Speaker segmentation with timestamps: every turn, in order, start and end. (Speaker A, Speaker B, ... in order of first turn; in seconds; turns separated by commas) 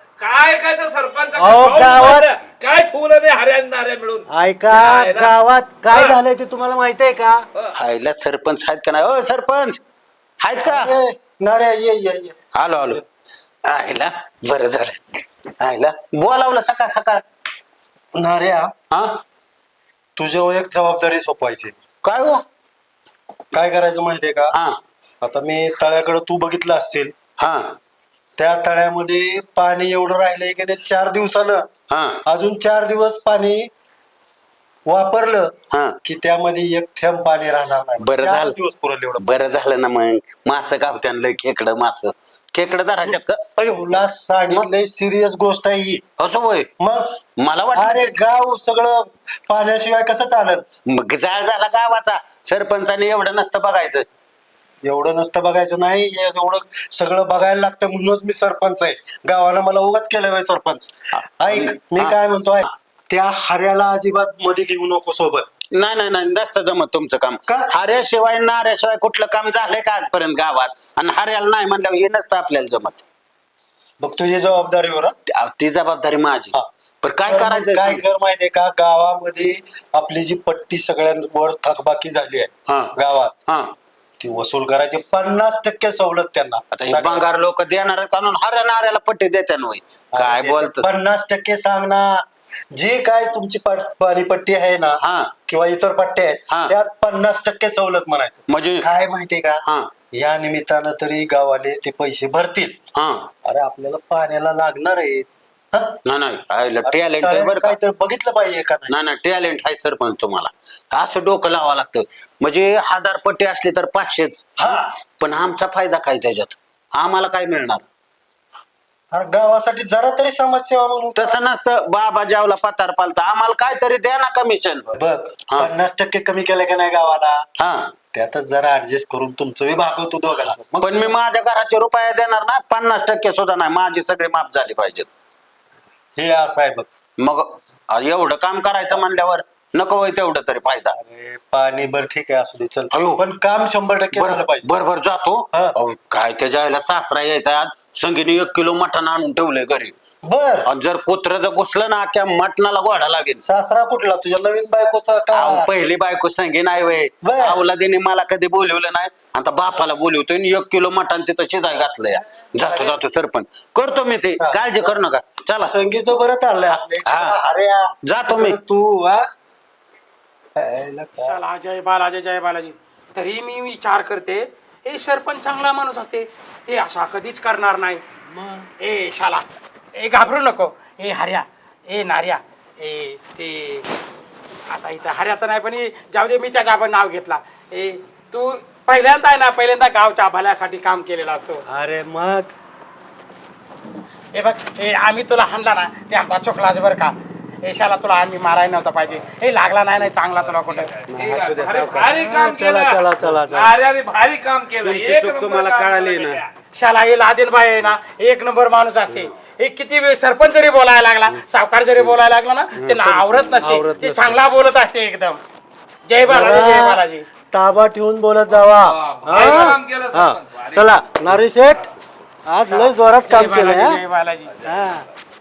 Speaker A: 0.2-5.3, Speaker B: 1.3-2.2, Speaker B: 4.3-7.4, Speaker A: 5.9-6.2, Speaker C: 7.7-9.8, Speaker C: 10.4-10.9, Speaker B: 10.6-13.0, Speaker C: 12.5-13.0, Speaker C: 13.6-15.0, Speaker C: 15.6-17.2, Speaker B: 18.1-18.7, Speaker C: 18.9-19.2, Speaker B: 20.2-21.8, Speaker C: 22.0-22.4, Speaker B: 23.5-24.5, Speaker C: 24.5-24.8, Speaker B: 25.2-27.1, Speaker C: 27.4-27.8, Speaker B: 28.4-31.7, Speaker C: 31.9-32.2, Speaker B: 32.2-33.7, Speaker B: 34.9-39.2, Speaker C: 35.7-36.0, Speaker C: 38.0-38.5, Speaker C: 39.2-43.5, Speaker B: 43.1-46.0, Speaker C: 46.2-46.7, Speaker B: 46.8-47.2, Speaker C: 47.4-48.2, Speaker B: 47.7-50.7, Speaker C: 50.9-54.1, Speaker B: 54.8-65.5, Speaker C: 61.5-62.2, Speaker C: 65.7-73.0, Speaker B: 74.0-75.1, Speaker C: 75.3-78.0, Speaker B: 77.3-83.3, Speaker C: 82.7-82.9, Speaker C: 83.5-83.7, Speaker B: 84.2-87.2, Speaker C: 86.7-90.9, Speaker B: 90.1-102.8, Speaker C: 95.0-95.3, Speaker C: 96.5-96.7, Speaker C: 98.5-98.8, Speaker C: 99.6-99.9, Speaker C: 102.9-103.3, Speaker B: 103.4-106.0, Speaker C: 106.0-107.8, Speaker B: 106.8-108.9, Speaker C: 108.9-117.8, Speaker B: 114.6-114.8, Speaker B: 119.1-121.4, Speaker C: 121.2-124.9, Speaker B: 124.9-127.4, Speaker C: 127.6-127.9, Speaker B: 128.1-131.1, Speaker C: 130.7-135.1, Speaker B: 136.2-136.9, Speaker C: 137.2-140.9, Speaker B: 140.9-144.7, Speaker C: 142.9-143.2, Speaker C: 144.1-149.9, Speaker B: 150.3-150.7, Speaker C: 150.7-153.4, Speaker B: 153.4-155.7, Speaker C: 155.3-165.7, Speaker B: 157.2-157.6, Speaker B: 162.6-163.0, Speaker B: 164.4-164.9, Speaker B: 165.6-169.2, Speaker C: 167.0-167.3, Speaker C: 168.0-168.6, Speaker B: 170.6-171.4, Speaker D: 171.2-178.0, Speaker B: 178.3-178.7, Speaker D: 178.8-179.4, Speaker D: 180.0-183.9, Speaker D: 184.7-191.6, Speaker B: 191.7-192.5, Speaker D: 194.3-200.9, Speaker A: 200.4-206.5, Speaker B: 201.1-203.7, Speaker C: 201.2-201.6, Speaker C: 204.8-206.4, Speaker D: 206.8-215.4, Speaker B: 212.8-214.4, Speaker D: 216.1-217.2, Speaker B: 216.2-221.9, Speaker A: 218.8-221.3, Speaker B: 222.4-224.0, Speaker D: 222.7-224.5, Speaker A: 224.6-224.9, Speaker B: 224.6-225.0